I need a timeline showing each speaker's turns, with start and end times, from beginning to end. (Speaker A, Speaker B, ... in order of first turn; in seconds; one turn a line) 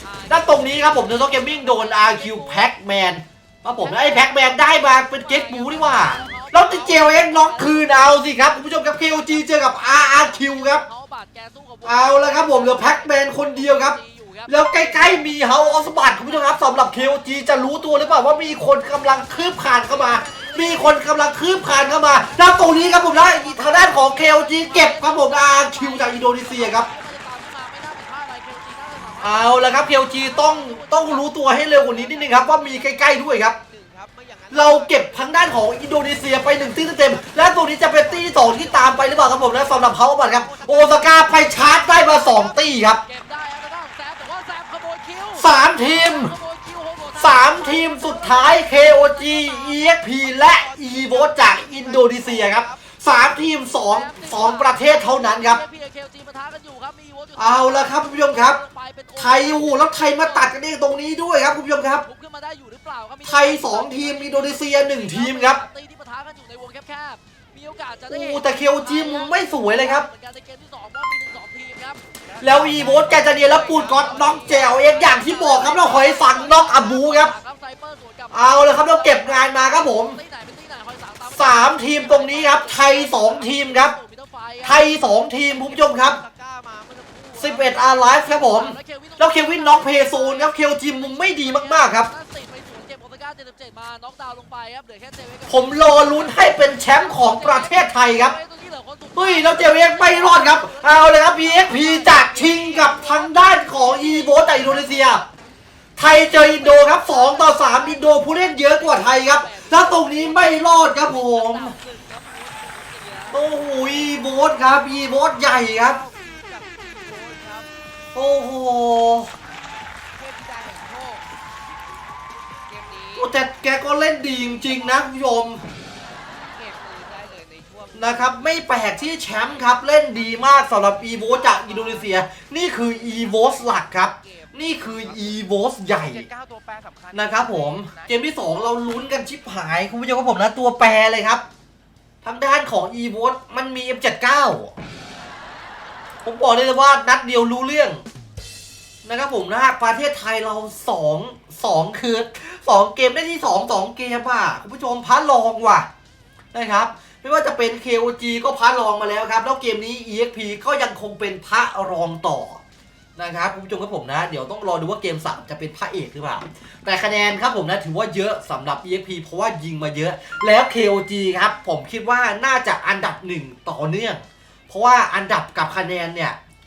Speaker A: 0.3-10.8
Speaker B: 1.4-2.4
Speaker B: 3.9-4.3
Speaker B: 5.2-7.7
Speaker B: 10.4-14.0
Speaker A: 11.8-26.9
Speaker B: 19.9-20.8
Speaker B: 22.9-31.2
Speaker A: 29.2-33.6
Speaker C: 33.7-35.4
Speaker A: 34.5-43.0
Speaker C: 37.4-38.8
Speaker C: 40.4-42.5
Speaker B: 43.1-45.5
Speaker A: 45.3-46.4
Speaker B: 46.1-48.1
Speaker A: 47.1-55.6
Speaker C: 50.5-52.8
Speaker B: 54.0-54.8
Speaker B: 55.3-57.4
Speaker A: 57.4-58.6
Speaker A: 59.2-62.1
Speaker B: 59.2-59.8
Speaker B: 62.5-64.3
Speaker A: 63.2-65.6
Speaker B: 65.3-68.4
Speaker A: 68.1-70.1
Speaker B: 69.0-69.3
Speaker B: 70.1-72.0
Speaker A: 72.4-77.3
Speaker B: 73.8-78.2
Speaker A: 78.3-80.2
Speaker B: 79.0-81.4
Speaker A: 81.2-84.0
Speaker B: 82.2-84.0
Speaker A: 84.6-86.2
Speaker C: 85.9-87.6
Speaker A: 87.4-92.1
Speaker B: 91.6-95.5
Speaker A: 95.5-98.4
Speaker B: 97.2-97.8
Speaker B: 98.3-100.4
Speaker A: 99.2-105.2
Speaker B: 101.5-103.0
Speaker B: 104.1-104.5
Speaker A: 106.0-111.8
Speaker B: 109.1-113.3
Speaker A: 113.3-116.0
Speaker C: 115.9-117.7
Speaker A: 118.2-119.3
Speaker C: 120.2-121.2
Speaker C: 122.7-123.2
Speaker A: 123.2-125.6
Speaker C: 126.4-129.4
Speaker A: 128.0-136.3
Speaker C: 133.2-133.6
Speaker C: 136.3-137.1
Speaker A: 137.1-141.4
Speaker A: 142.2-144.8
Speaker A: 146.2-148.0
Speaker A: 149.0-155.9
Speaker A: 156.5-162.6
Speaker A: 163.2-176.4